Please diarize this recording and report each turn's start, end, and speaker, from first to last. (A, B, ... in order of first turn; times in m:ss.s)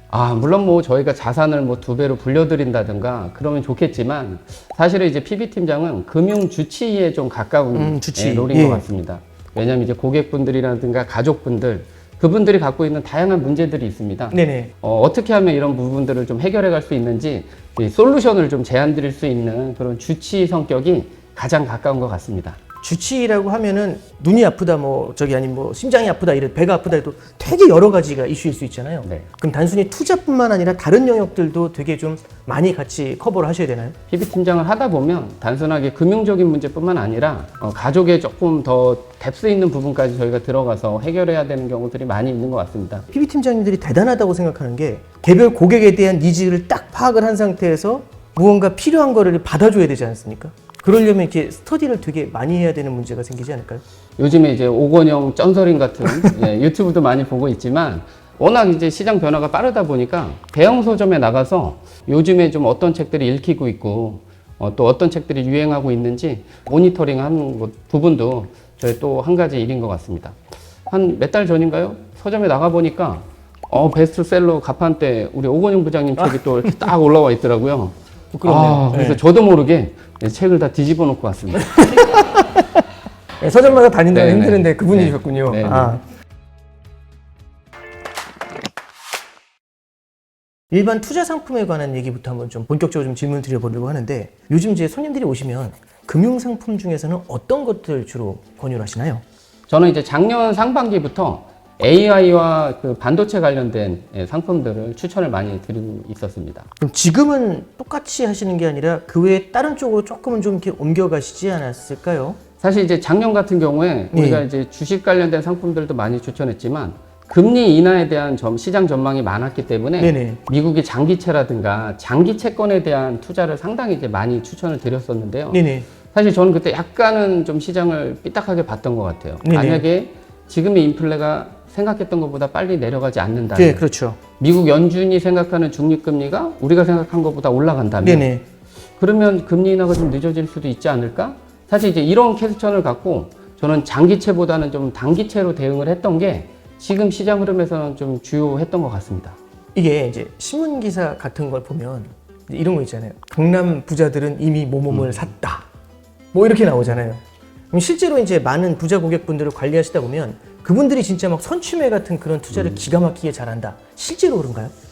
0:00.1-0:22.6 A
0:07.7-0:08.8 B
0:14.3-0:14.7 B
0:22.8-0:34.0 B
0:34.1-0:43.1 A
0:43.1-0:53.8 B
0:54.2-1:10.4 A
1:10.9-1:22.2 A
1:16.2-1:16.7 B
1:18.3-1:19.2 B
1:21.7-1:22.8 B
1:23.4-1:26.0 B
1:24.1-1:26.0 A
1:30.7-1:39.2 B
1:39.7-1:46.7 A
1:46.8-1:52.4 B
1:52.6-2:13.8 A
1:54.1-1:54.4 B
2:00.0-2:00.4 B
2:05.5-2:05.9 B
2:09.4-2:09.8 B
2:13.6-2:14.2 B
2:14.4-2:18.3 A
2:18.0-2:18.4 B
2:19.0-2:29.4 A
2:29.7-2:35.7 B
2:34.9-2:35.2 A
2:36.3-2:37.2 B
2:37.7-2:44.7 B